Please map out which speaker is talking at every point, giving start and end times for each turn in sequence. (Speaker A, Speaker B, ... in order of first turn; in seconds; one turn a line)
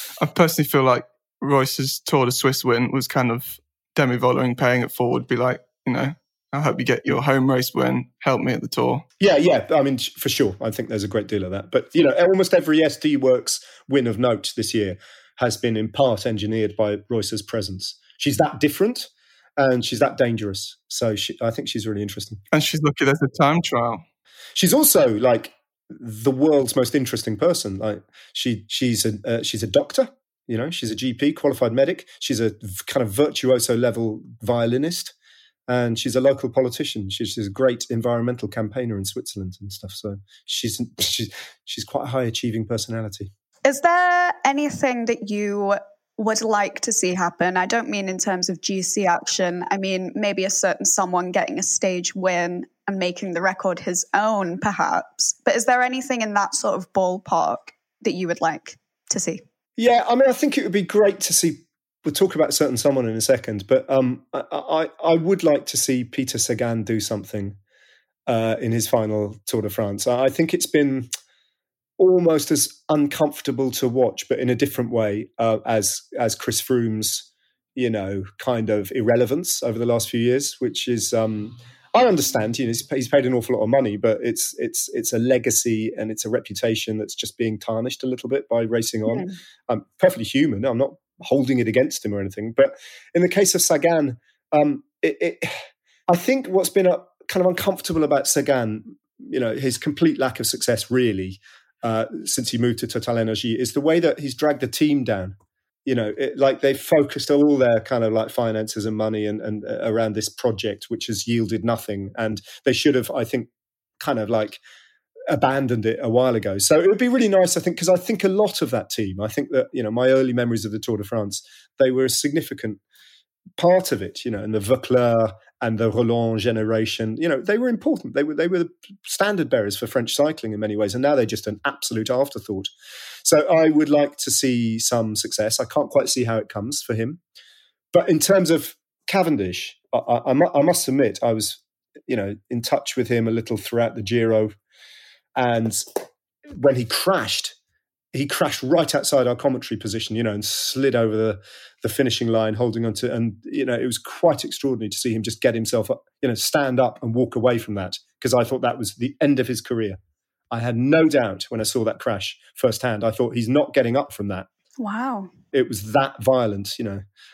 Speaker A: 0.2-9.0
Speaker B: 9.2-22.4
Speaker A: 22.5-24.0
Speaker B: 24.6-35.1
Speaker B: 35.7-43.3
Speaker C: 43.6-59.4
Speaker B: 59.8-67.6
Speaker B: 68.3-71.1
Speaker B: 72.0-105.3
Speaker B: 105.8-114.6
Speaker B: 115.3-122.8
Speaker B: 123.6-132.7
Speaker B: 133.2-137.2
Speaker B: 137.9-144.5
Speaker B: 145.4-145.8
Speaker B: 146.6-147.5
Speaker B: 148.1-160.0
Speaker B: 160.5-164.5
Speaker C: 164.8-165.3
Speaker B: 165.5-167.0